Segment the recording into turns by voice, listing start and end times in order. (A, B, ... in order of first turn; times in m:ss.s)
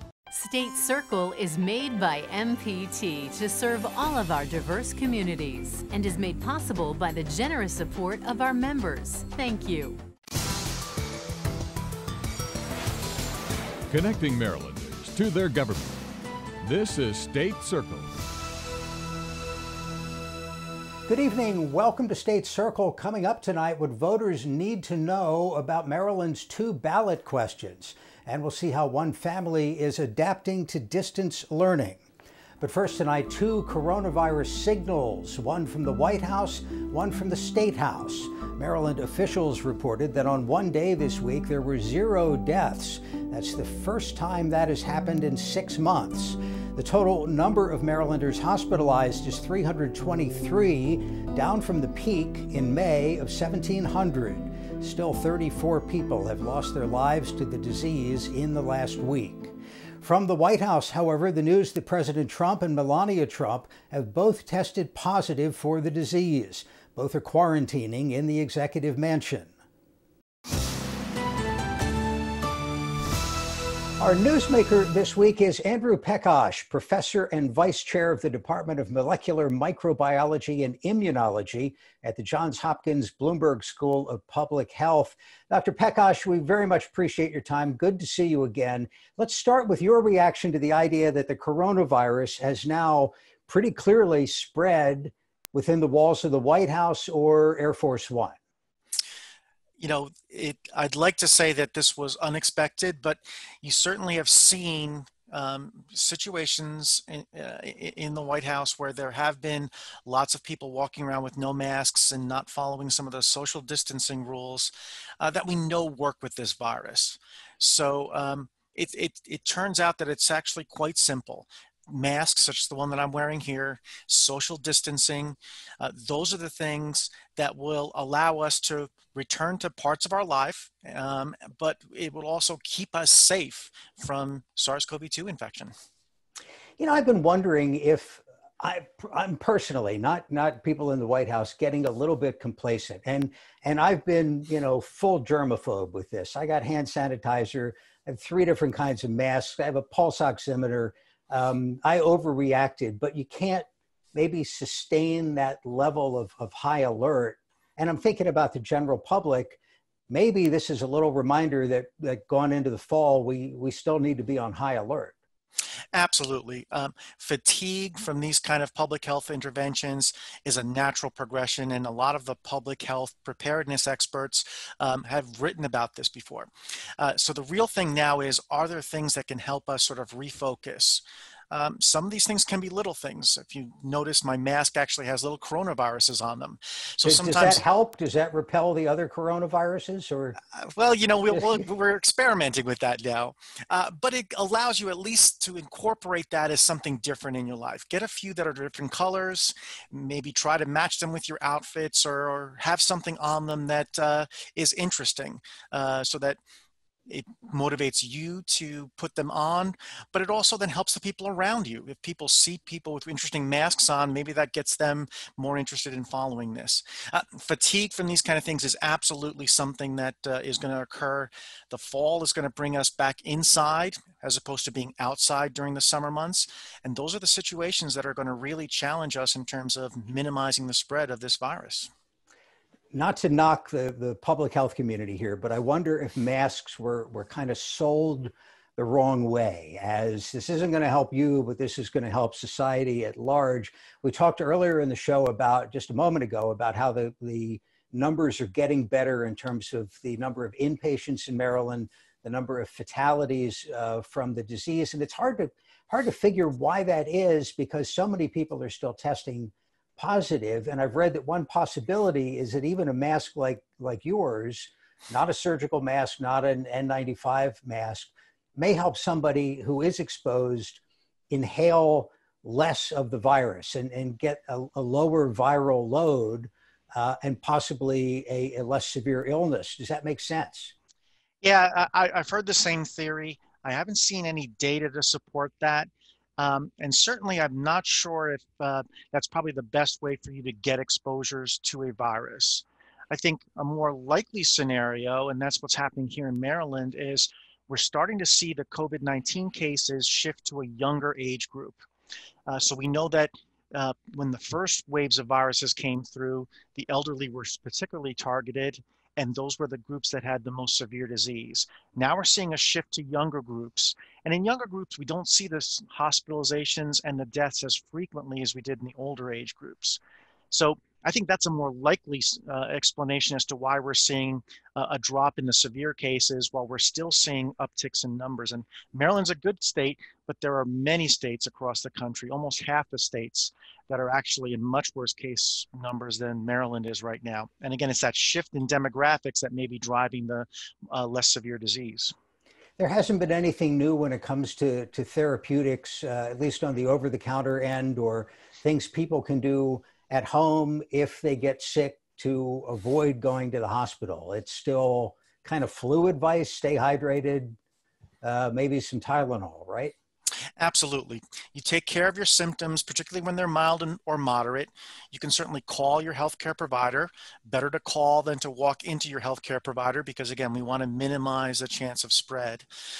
0:00.3-0:10.0 A
0:13.9-0:16.0 B
0:16.6-0:18.2 B
0:21.1-0:32.0 C
0:32.6-1:09.5 C
1:14.0-1:38.4 C
1:39.8-2:15.7 D
2:16.8-2:45.2 C
2:45.9-3:07.6 D
3:07.0-3:10.4 C
3:10.6-3:26.4 D
3:11.3-3:11.6 C
3:27.1-3:51.9 D
3:52.9-4:40.7 C
4:41.4-5:01.8 D
5:02.5-5:20.0 D
5:20.5-5:42.1 D
5:42.8-5:57.6 C
5:58.2-5:59.9 C
6:00.6-6:12.6 D